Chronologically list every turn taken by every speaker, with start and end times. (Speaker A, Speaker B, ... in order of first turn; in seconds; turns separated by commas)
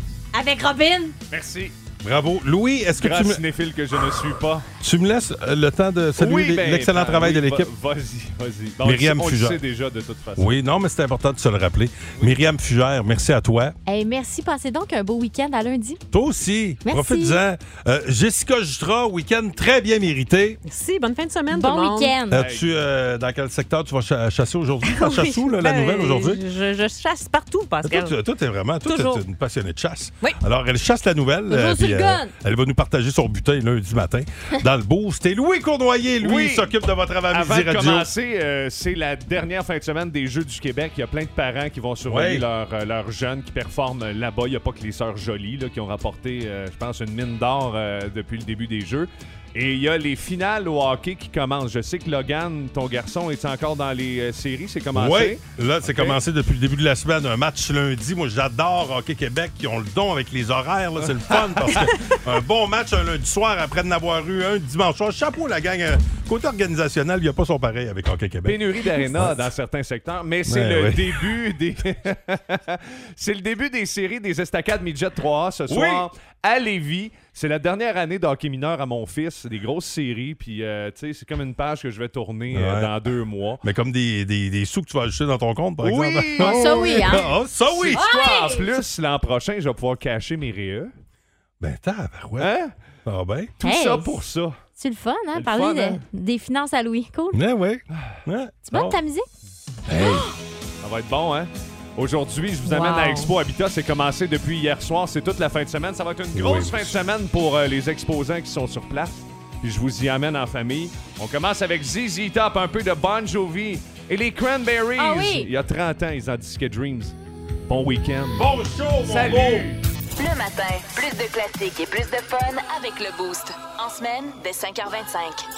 Speaker A: 0.3-1.1, Speaker B: 1.3-1.7, Speaker C: 2.0-3.4, Speaker B: 3.0-4.7, Speaker C: 4.8-7.7, Speaker B: 6.2-10.6, Speaker C: 8.8-9.6, Speaker C: 10.3-13.7, Speaker A: 13.9-16.0, Speaker C: 16.1-20.6, Speaker A: 16.8-17.4, Speaker D: 20.6-22.2, Speaker A: 21.5-22.4, Speaker C: 22.3-26.4, Speaker B: 22.3-22.6, Speaker D: 24.8-28.2, Speaker C: 27.9-38.1, Speaker D: 28.8-29.2, Speaker A: 31.5-32.3, Speaker B: 36.2-36.7, Speaker B: 37.3-56.2, Speaker C: 42.0-42.5, Speaker C: 54.9-69.5, Speaker B: 61.0-62.1, Speaker B: 68.4-83.6, Speaker C: 70.5-71.3, Speaker C: 75.7-76.1, Speaker C: 82.5-83.0, Speaker C: 83.6-88.0, Speaker B: 85.8-90.9, Speaker A: 86.4-87.3, Speaker A: 87.9-88.8, Speaker C: 91.6-92.5, Speaker B: 92.4-92.7, Speaker C: 93.0-93.5, Speaker B: 93.6-94.6, Speaker A: 93.6-94.2, Speaker A: 94.8-97.4, Speaker B: 95.3-96.0, Speaker C: 97.3-99.0, Speaker A: 98.7-99.2, Speaker C: 99.9-100.3, Speaker A: 99.9-100.3, Speaker B: 100.8-117.1, Speaker A: 102.6-103.3, Speaker C: 106.3-107.0, Speaker A: 115.0-115.5, Speaker B: 117.7-119.8, Speaker C: 118.3-119.8, Speaker E: 120.2-125.4